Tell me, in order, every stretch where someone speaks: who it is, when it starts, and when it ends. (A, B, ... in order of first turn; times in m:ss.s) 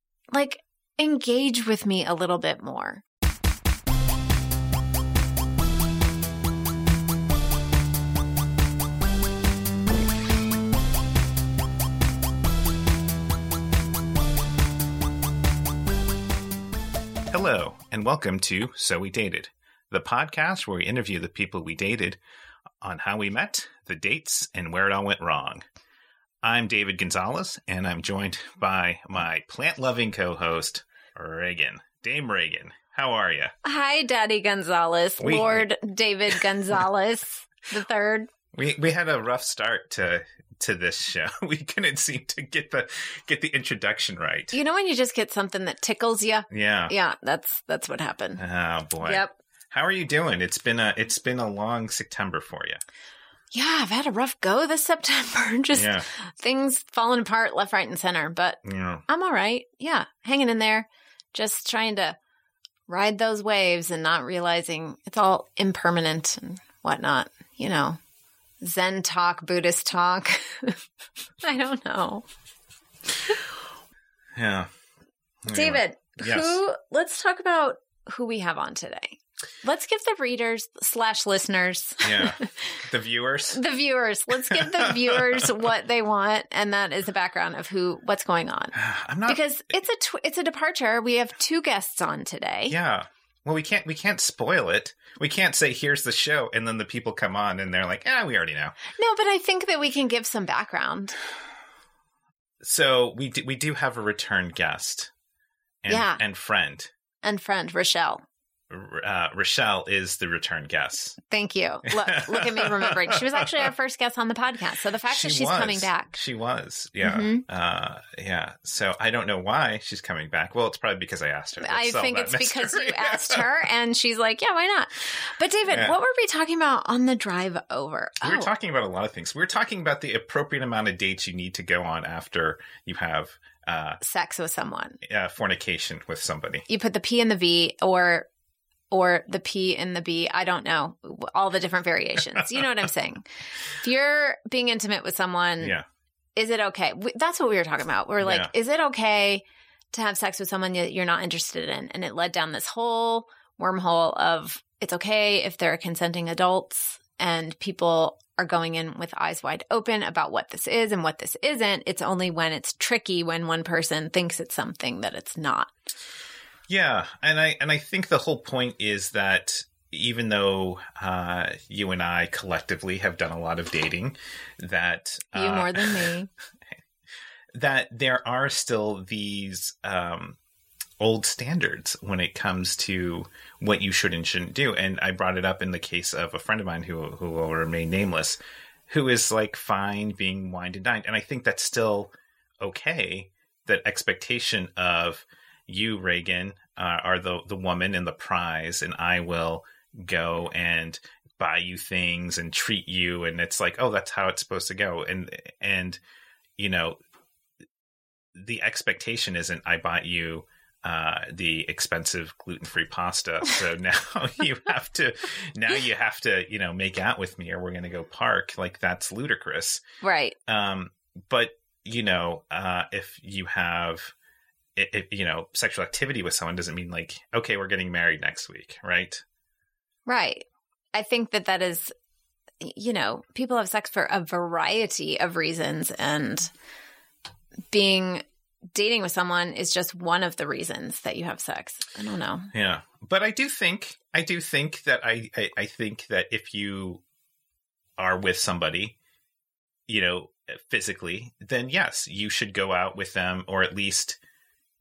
0:00.3-0:03.0 A
0:17.3-0:22.2 B
0:22.8-0:25.6 B
0:26.4-0:33.5 B
0:33.6-0:38.3 A
0:35.2-0:35.7 B
0:38.5-0:44.6 B
0:44.5-0:48.4 A
0:46.5-0:46.9 B
0:48.4-0:52.8 B
0:49.0-0:49.3 A
0:53.5-1:02.2 A
0:55.7-0:56.0 B
0:58.6-0:59.0 B
1:02.9-1:08.0 A
1:08.6-1:10.8 A
1:11.4-1:12.2 A
1:14.4-1:14.7 B
1:15.4-1:16.6 B
1:15.5-1:22.7 A
1:22.0-1:23.6 B
1:23.5-1:28.7 A
1:24.5-1:25.5 B
1:28.7-1:29.4 B
1:29.2-1:32.8 A
1:32.7-1:38.8 B
1:38.9-1:41.2 A
1:42.6-1:45.1 B
1:45.8-1:46.9 B
1:45.9-1:46.2 A
1:47.2-1:48.2 A
1:48.7-1:51.2 B
1:51.3-1:56.1 A
1:51.9-1:53.7 B
1:55.1-2:03.6 B
1:57.0-1:57.4 A
2:01.6-2:08.5 A
2:05.7-2:06.0 B
2:08.2-2:14.0 B
2:14.0-2:15.0 A
2:15.0-2:16.6 B
2:16.7-2:18.3 A
2:18.9-2:23.2 A
2:22.4-2:22.7 B
2:23.8-2:25.8 A
2:26.4-2:45.7 A
2:28.2-2:28.5 B
2:46.7-2:56.1 B
2:55.3-2:56.3 A
2:57.5-3:00.4 B
3:01.0-3:08.4 B
3:08.9-3:26.0 B
3:26.6-3:27.0 B
3:28.3-3:39.8 B
3:40.0-3:40.3 A
3:40.5-3:44.1 B
3:44.8-3:49.2 B
3:50.0-3:51.9 A
3:52.6-3:56.5 A
3:57.7-4:02.5 A
4:02.5-4:07.0 B
4:08.0-4:08.9 B
4:09.9-4:14.2 B